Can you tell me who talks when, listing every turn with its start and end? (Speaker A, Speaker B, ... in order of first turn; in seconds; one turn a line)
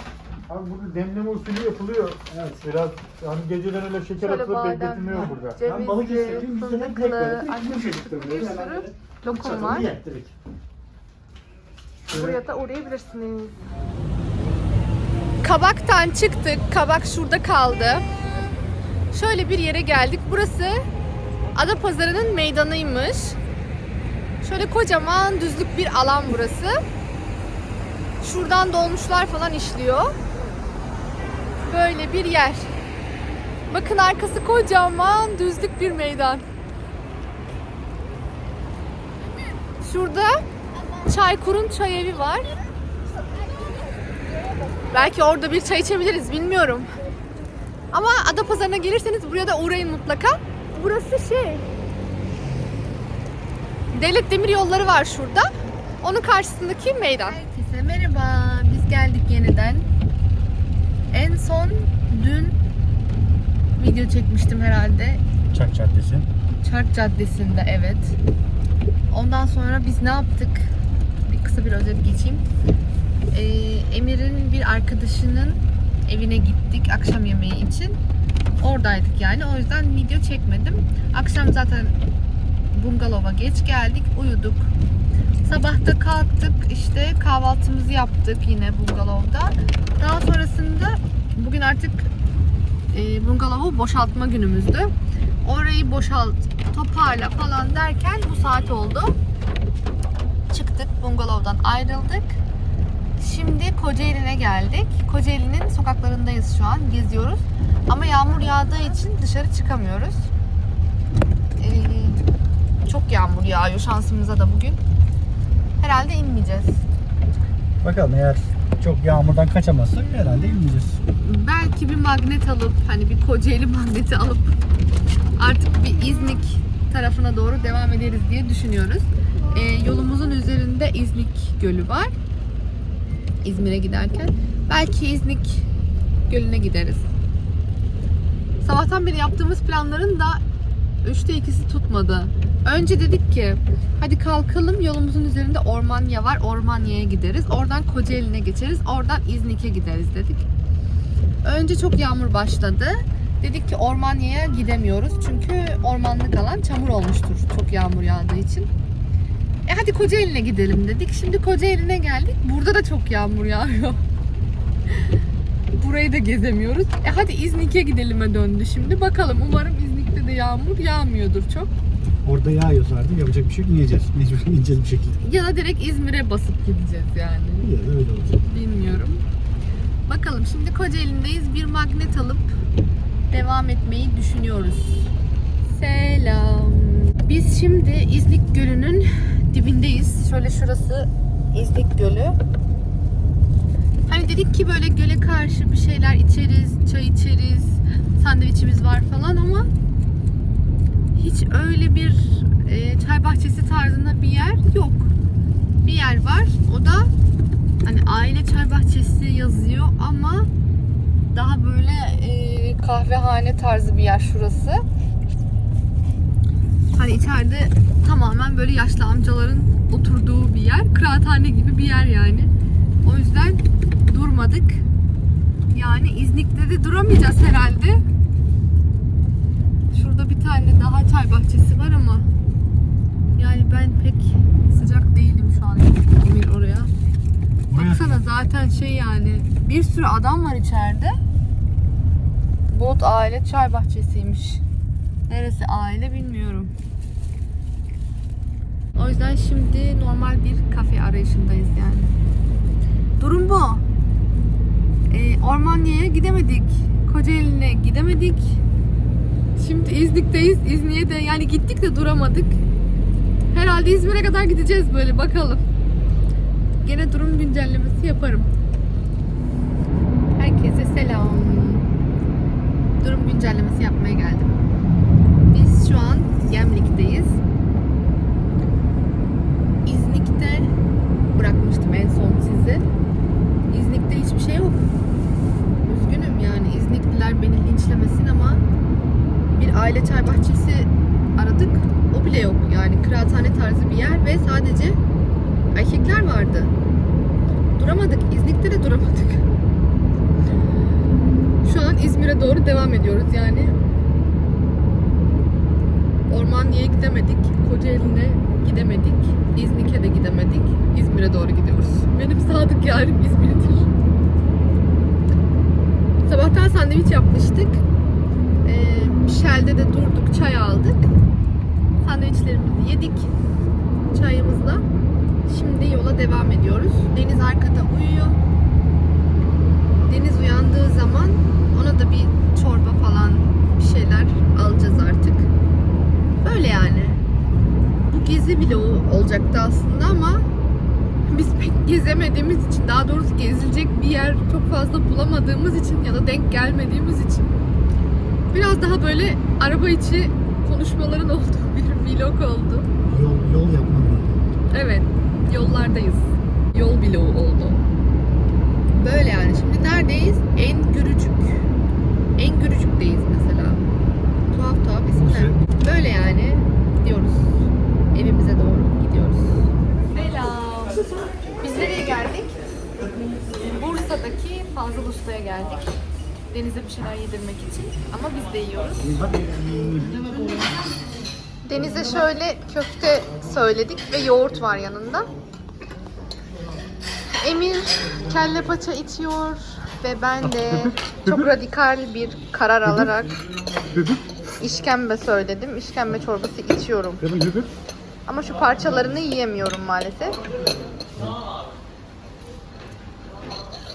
Speaker A: 0.5-5.6
Speaker B: 2.3-2.6
Speaker C: 4.2-9.9
Speaker B: 5.1-10.3
Speaker C: 12.1-13.6
Speaker C: 15.4-18.0
Speaker C: 19.1-20.8
Speaker C: 21.5-23.4
Speaker C: 24.4-26.8
Speaker C: 28.2-30.1
Speaker C: 31.7-32.7
Speaker C: 33.7-36.5
Speaker C: 39.8-40.4
Speaker C: 41.0-42.5
Speaker C: 44.9-46.9
Speaker C: 47.9-51.6
Speaker C: 53.9-55.5
Speaker C: 56.0-59.9
Speaker C: 61.1-62.6
Speaker C: 63.8-65.2
Speaker B: 65.5-66.3
Speaker C: 66.6-68.2
Speaker C: 69.1-70.7
Speaker C: 71.2-72.5
Speaker C: 73.3-78.0
Speaker C: 78.6-82.0
Speaker C: 82.7-84.7
Speaker C: 85.4-92.1
Speaker C: 92.9-99.2
Speaker C: 100.5-102.4
Speaker C: 103.2-110.3
Speaker C: 111.6-112.2
Speaker C: 112.8-114.8
Speaker C: 115.8-116.8
Speaker B: 117.8-121.0
Speaker C: 121.2-124.5
Speaker C: 125.4-132.1
Speaker C: 133.4-135.7
Speaker C: 136.3-137.1
Speaker C: 138.6-140.4
Speaker C: 141.0-150.4
Speaker C: 151.4-158.7
Speaker C: 159.7-164.0
Speaker C: 165.7-171.7
Speaker B: 172.2-175.2
Speaker C: 175.2-177.7
Speaker B: 177.6-178.5
Speaker C: 178.4-179.2
Speaker C: 180.1-182.5
Speaker C: 183.3-185.1
Speaker C: 185.6-192.3
Speaker C: 194.1-199.7
Speaker C: 201.1-205.1
Speaker C: 205.8-207.1
Speaker C: 207.8-210.5
Speaker C: 211.3-214.8
Speaker C: 216.9-222.5
Speaker C: 223.0-224.8
Speaker C: 225.7-228.0
Speaker C: 229.9-232.3
Speaker C: 233.4-236.9
Speaker B: 237.7-238.2
Speaker C: 237.7-241.2
Speaker C: 242.7-244.6
Speaker C: 245.3-246.7
Speaker C: 248.9-252.1
Speaker C: 253.2-253.8
Speaker C: 255.1-258.6
Speaker C: 259.6-262.6
Speaker C: 263.5-265.6
Speaker C: 266.8-268.5
Speaker C: 270.4-271.9
Speaker C: 273.0-274.6
Speaker C: 275.5-277.4
Speaker C: 279.8-280.7
Speaker C: 281.3-282.9
Speaker C: 283.7-284.9
Speaker C: 285.8-288.6
Speaker C: 289.5-295.0
Speaker C: 295.7-296.7
Speaker C: 297.8-299.5
Speaker C: 301.6-303.8
Speaker C: 306.3-313.9
Speaker C: 316.2-317.8
Speaker C: 318.6-321.1
Speaker C: 322.0-323.3
Speaker C: 324.1-324.8
Speaker C: 325.4-328.4
Speaker C: 330.0-335.5
Speaker C: 336.4-337.2
Speaker C: 338.0-340.5
Speaker C: 341.3-347.5
Speaker C: 348.5-352.9
Speaker B: 353.0-354.5
Speaker C: 354.7-357.8
Speaker C: 358.9-361.7
Speaker C: 362.4-363.9
Speaker C: 364.5-371.1
Speaker B: 365.1-365.7
Speaker C: 371.6-372.5
Speaker C: 373.7-375.9
Speaker C: 376.5-379.1
Speaker B: 379.0-380.9
Speaker C: 381.6-385.3
Speaker C: 387.4-393.3
Speaker B: 390.6-391.4
Speaker B: 393.9-394.2
Speaker C: 394.6-397.2
Speaker B: 397.2-397.7
Speaker C: 398.2-400.4